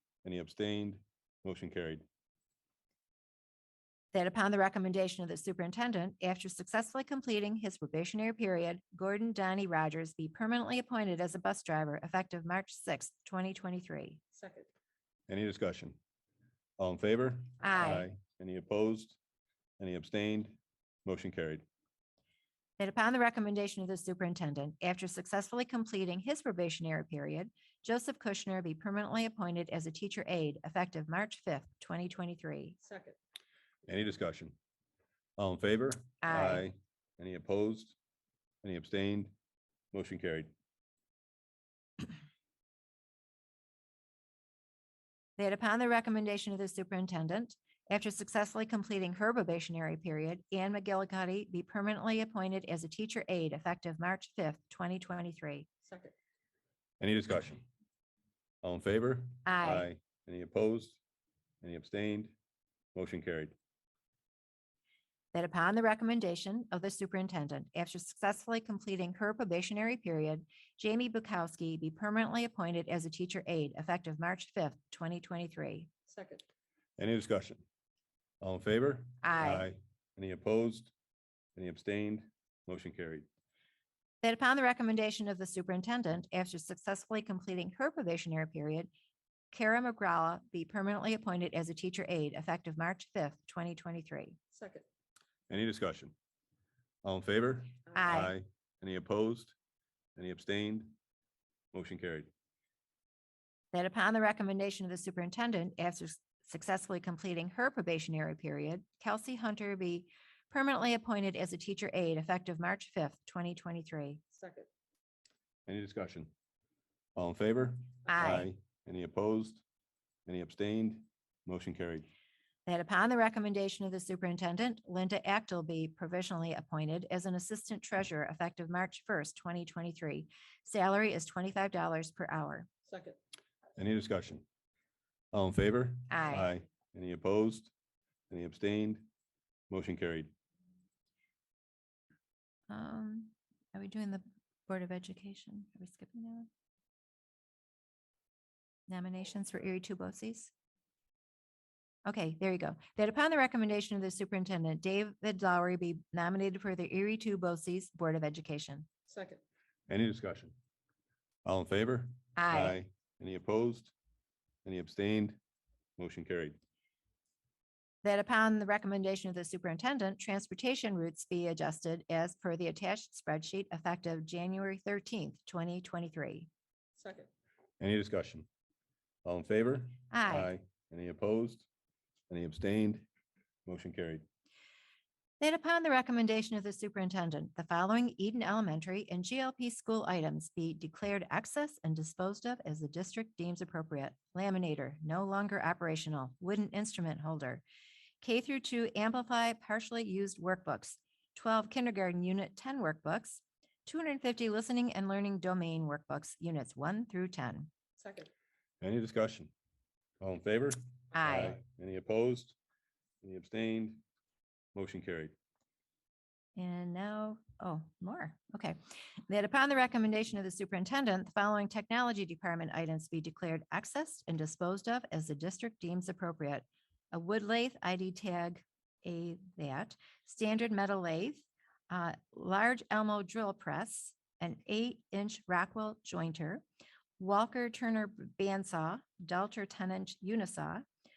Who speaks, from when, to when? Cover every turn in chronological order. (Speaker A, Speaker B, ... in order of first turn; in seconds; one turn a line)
Speaker A: 0.2-2.0
Speaker B: 4.1-14.2
Speaker C: 14.3-14.7
Speaker A: 15.3-16.0
Speaker A: 16.8-19.2
Speaker B: 17.6-18.1
Speaker A: 19.8-21.6
Speaker B: 22.8-32.8
Speaker C: 32.8-33.2
Speaker A: 33.9-34.6
Speaker A: 35.4-38.0
Speaker B: 36.2-36.7
Speaker A: 38.6-39.3
Speaker A: 39.9-40.5
Speaker B: 45.4-55.7
Speaker C: 55.9-56.1
Speaker A: 57.0-57.6
Speaker A: 58.6-61.0
Speaker B: 59.5-59.9
Speaker A: 61.6-62.4
Speaker A: 62.9-63.6
Speaker B: 65.3-75.9
Speaker C: 76.1-76.4
Speaker A: 77.0-77.6
Speaker A: 78.4-80.9
Speaker B: 79.2-79.7
Speaker A: 81.6-83.3
Speaker B: 84.2-88.9
Speaker B: 89.5-94.4
Speaker C: 94.5-94.8
Speaker A: 95.5-96.2
Speaker A: 97.0-99.5
Speaker B: 98.0-98.3
Speaker A: 100.2-101.0
Speaker A: 101.7-102.3
Speaker B: 103.7-114.2
Speaker C: 114.3-114.7
Speaker A: 115.7-116.3
Speaker A: 117.2-119.6
Speaker B: 118.1-118.5
Speaker A: 120.3-122.1
Speaker B: 122.7-132.7
Speaker C: 132.9-133.2
Speaker A: 133.8-134.4
Speaker A: 135.3-137.7
Speaker B: 136.1-136.5
Speaker A: 138.3-139.1
Speaker A: 139.7-140.3
Speaker B: 142.7-146.5
Speaker B: 148.9-150.5
Speaker B: 152.1-158.9
Speaker C: 159.1-159.4
Speaker A: 159.9-160.6
Speaker A: 161.4-163.9
Speaker B: 162.4-162.8
Speaker A: 164.7-165.4
Speaker A: 166.0-166.6
Speaker B: 168.0-176.5
Speaker C: 177.0-177.3
Speaker A: 177.8-178.5
Speaker A: 179.2-181.7
Speaker B: 180.1-180.5
Speaker A: 182.3-183.1
Speaker A: 183.7-184.2
Speaker B: 185.4-197.6
Speaker B: 198.2-207.7
Speaker C: 208.0-208.3
Speaker A: 208.8-209.5
Speaker A: 210.2-212.6
Speaker B: 211.1-211.6
Speaker A: 213.2-214.0
Speaker A: 214.7-215.3
Speaker B: 216.6-218.8
Speaker B: 219.3-236.6
Speaker B: 237.2-240.8